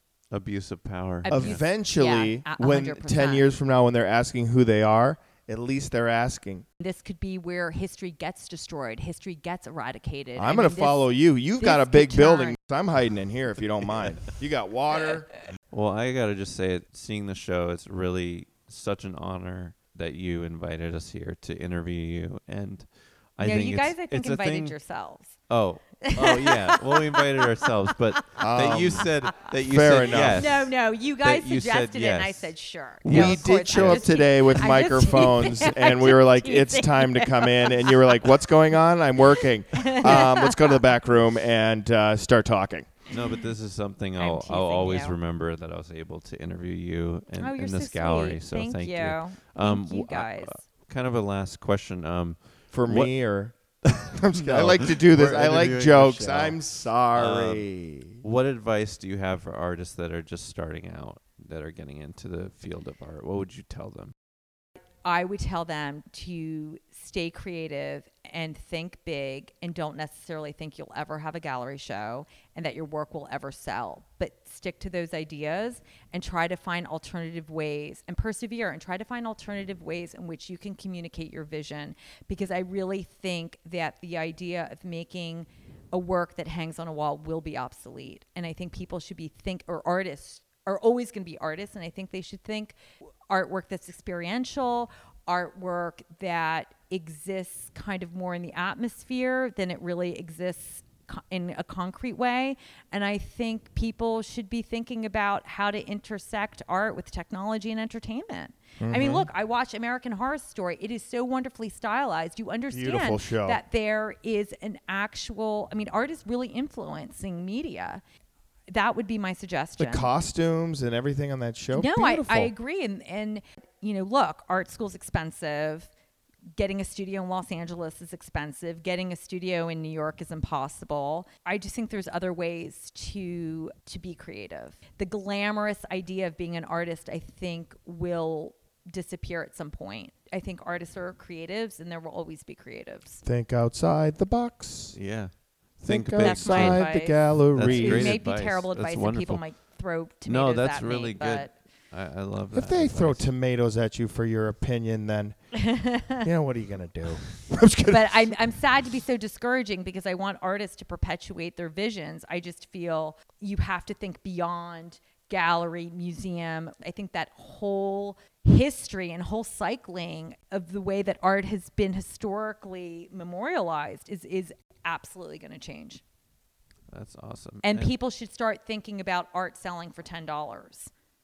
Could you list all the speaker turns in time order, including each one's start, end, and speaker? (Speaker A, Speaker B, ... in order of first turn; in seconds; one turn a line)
Speaker A: 0.3-1.6
Speaker B: 1.2-3.5
Speaker C: 1.3-6.7
Speaker B: 6.8-12.6
Speaker C: 10.3-15.3
Speaker A: 15.7-24.7
Speaker B: 23.4-25.4
Speaker A: 25.5-32.5
Speaker B: 26.0-28.4
Speaker C: 28.4-30.5
Speaker B: 30.2-38.3
Speaker A: 33.0-34.2
Speaker C: 33.0-42.9
Speaker B: 39.3-40.8
Speaker A: 43.1-53.1
Speaker B: 44.2-45.1
Speaker B: 47.4-50.7
Speaker C: 52.7-58.2
Speaker A: 53.8-56.6
Speaker A: 57.1-57.7
Speaker A: 58.2-64.1
Speaker B: 64.9-92.8
Speaker B: 93.3-118.0
Speaker C: 108.8-109.3
Speaker C: 112.7-113.6
Speaker B: 118.7-120.1
Speaker C: 119.8-122.5
Speaker B: 121.7-125.9
Speaker B: 126.6-143.2
Speaker C: 143.2-145.0
Speaker A: 144.9-146.9
Speaker C: 145.8-148.2
Speaker B: 146.1-151.6
Speaker A: 147.5-149.4
Speaker A: 150.2-153.3
Speaker C: 152.5-155.4
Speaker B: 155.5-156.3
Speaker C: 156.1-158.3
Speaker B: 157.9-176.0
Speaker A: 176.9-177.9
Speaker B: 177.6-180.9